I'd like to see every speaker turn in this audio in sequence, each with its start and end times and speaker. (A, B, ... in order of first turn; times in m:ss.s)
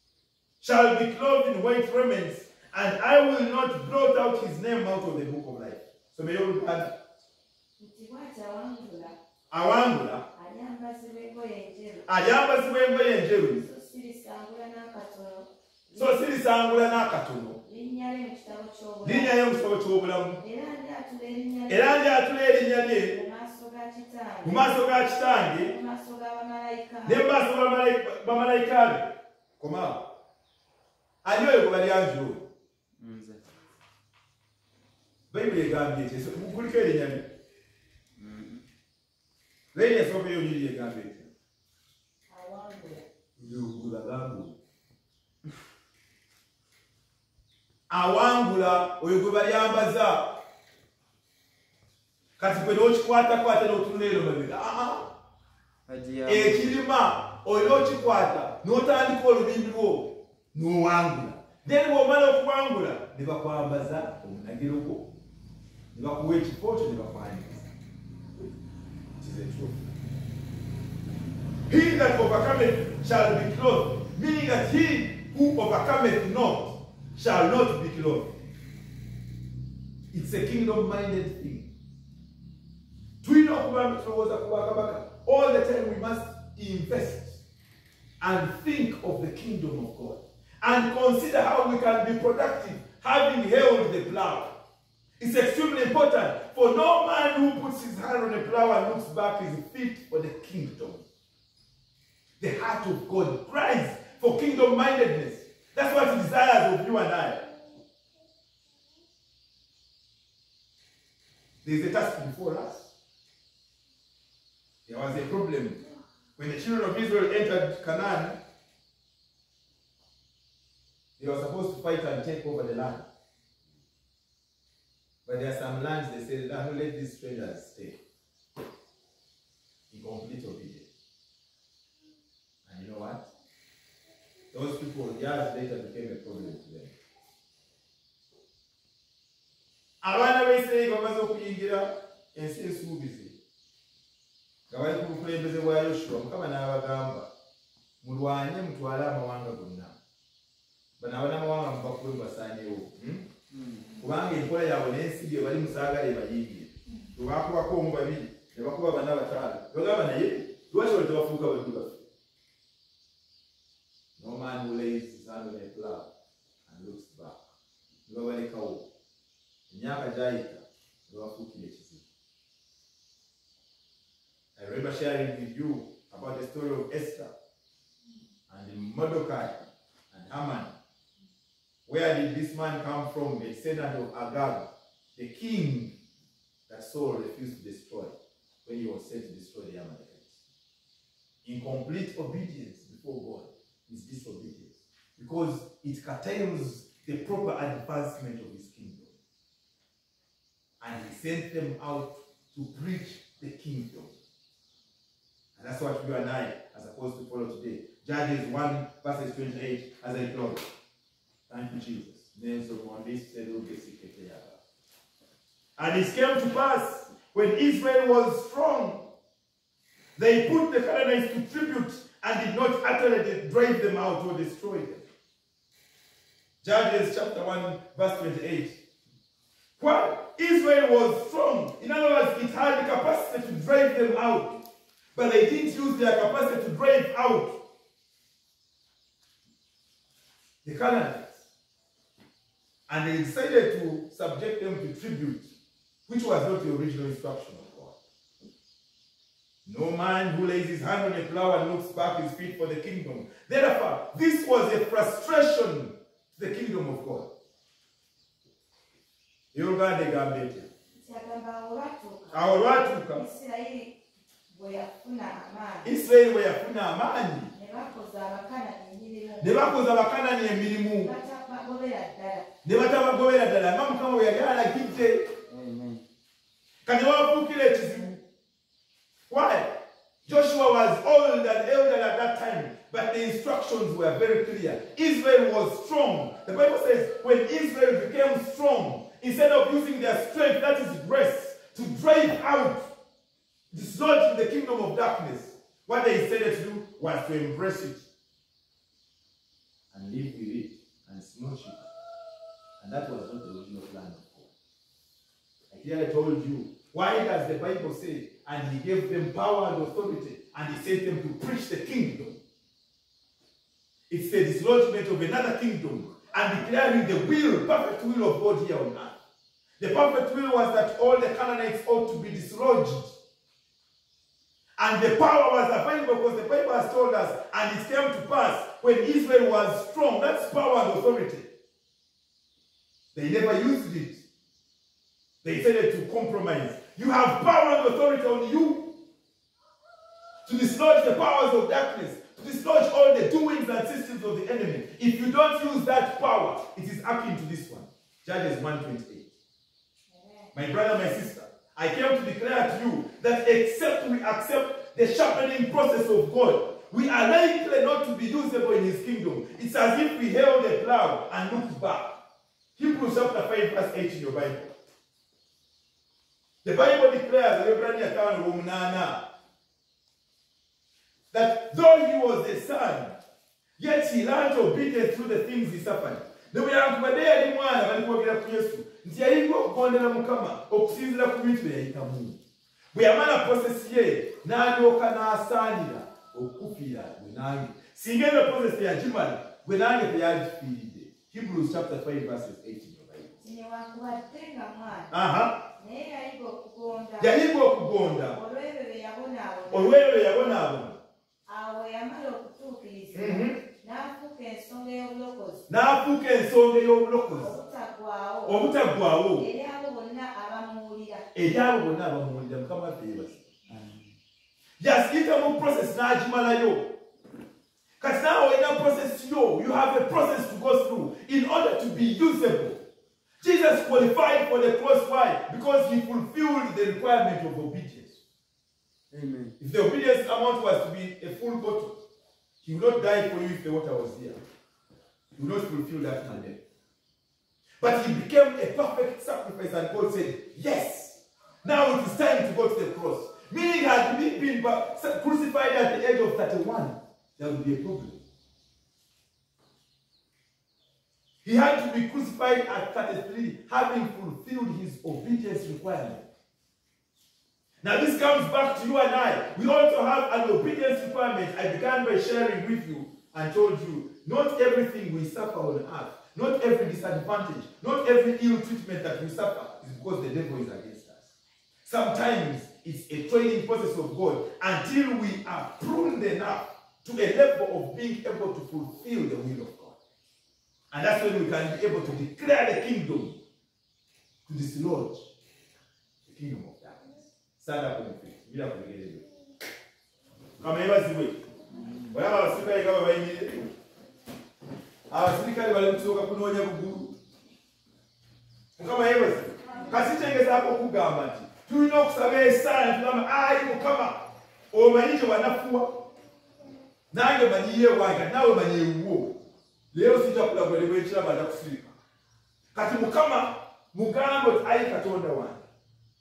0:00.6-0:06.9 A
0:07.8-0:09.2 B
0:09.5-0:10.2 A
0:10.4-0:12.1 B
0:12.1-0:13.6 A
0:13.6-0:16.1 B
0:16.0-0:17.6 A
0:17.6-0:19.4 B
0:19.0-0:20.4 A
0:20.4-0:22.0 B
0:21.7-0:23.2 A
0:23.1-0:27.2 B
0:24.4-0:25.7 A
0:27.0-0:30.0 A
0:31.2-0:32.5 A
0:33.0-0:33.6 C
0:35.3-0:37.3 A
0:38.2-0:38.6 C
0:39.7-0:41.3 A
0:42.3-0:43.1 B
0:43.4-0:44.6 A
0:47.9-0:50.4 A
0:52.4-0:55.1 A
0:55.9-0:56.8 C
0:56.3-1:05.1 A
1:05.9-1:07.7 A
1:09.2-1:10.0 A
1:11.7-1:18.3 A
1:20.1-1:21.7 A
1:23.2-1:27.4 A
1:28.2-1:34.5 A
1:35.2-1:41.0 A
1:42.4-1:47.5 A
1:51.6-1:52.9 A
1:54.9-1:55.8 A
1:56.4-1:58.4 A
2:01.2-2:03.1 A
2:05.3-2:08.0 A
2:09.9-2:10.9 A
2:12.6-2:13.2 A
2:14.5-2:17.0 A
2:20.0-2:23.4 A
2:24.7-2:27.3 A
2:28.0-2:30.0 A
2:31.0-2:33.3 A
2:33.5-2:33.9 C
2:34.0-2:42.1 A
2:44.2-2:46.1 A
2:46.7-2:47.4 A
2:48.1-2:48.9 A
2:49.7-2:52.0 A
2:54.6-2:57.3 A
2:58.5-3:00.7 A
3:01.9-3:05.9 A
3:06.7-3:10.3 A
3:11.4-3:19.1 A
3:20.8-3:24.2 A
3:25.6-3:30.6 A
3:31.5-3:34.6 A
3:35.8-3:39.0 A
3:40.2-3:45.1 A
3:46.6-3:48.8 A
3:49.8-3:54.6 A
3:55.2-3:57.6 A
4:00.6-4:01.4 A
4:02.9-4:05.5 A
4:06.1-4:08.0 A
4:09.6-4:17.3 A
4:19.5-4:20.7 A
4:20.9-4:24.0 B
4:22.3-4:23.2 A
4:24.5-4:25.9 B
4:25.8-4:27.5 A
4:27.5-4:29.8 B
4:29.4-4:31.1 A
4:31.0-4:32.5 B
4:32.6-4:35.3 A
4:35.5-4:36.0 C
4:36.9-4:38.2 A
4:39.3-4:39.7 A
4:40.2-4:52.9 A
4:53.7-4:58.1 A
4:59.9-5:01.9 A
5:02.8-5:04.5 A
5:05.7-5:12.4 A
5:14.1-5:19.2 A
5:19.8-5:23.2 A
5:24.8-5:31.5 A
5:33.1-5:34.2 A
5:35.4-5:39.0 A
5:40.4-5:49.3 A
5:50.1-5:50.5 B
5:50.5-6:02.2 A
6:02.8-6:04.7 A
6:06.6-6:09.2 A
6:11.3-6:13.2 A
6:13.8-6:22.4 A
6:22.9-6:33.4 A
6:33.4-6:35.1 B
6:35.1-6:35.6 A
6:35.8-6:37.4 B
6:37.2-6:38.4 A
6:38.3-6:40.0 B
6:39.7-6:41.0 A
6:41.5-6:45.7 B
6:43.1-6:43.6 A
6:45.7-6:47.6 A
6:47.4-6:51.3 B
6:48.5-6:49.5 A
6:51.3-6:53.5 A
6:53.7-6:54.1 C
6:54.8-6:56.9 A
6:58.0-7:02.8 A
7:03.4-7:08.1 A
7:09.1-7:09.6 C
7:09.6-7:12.0 A
7:12.6-7:14.4 A
7:15.4-7:16.6 A
7:17.8-7:28.2 A
7:31.4-7:36.3 A
7:37.8-7:51.3 A
7:51.8-8:00.0 A
8:00.9-8:03.4 A
8:04.5-8:05.3 A
8:06.2-8:09.2 A
8:10.6-8:11.4 A
8:12.1-8:13.7 A
8:15.1-8:17.2 A
8:18.8-8:26.0 A
8:27.1-8:29.4 A
8:29.9-8:31.9 A
8:32.8-8:35.6 A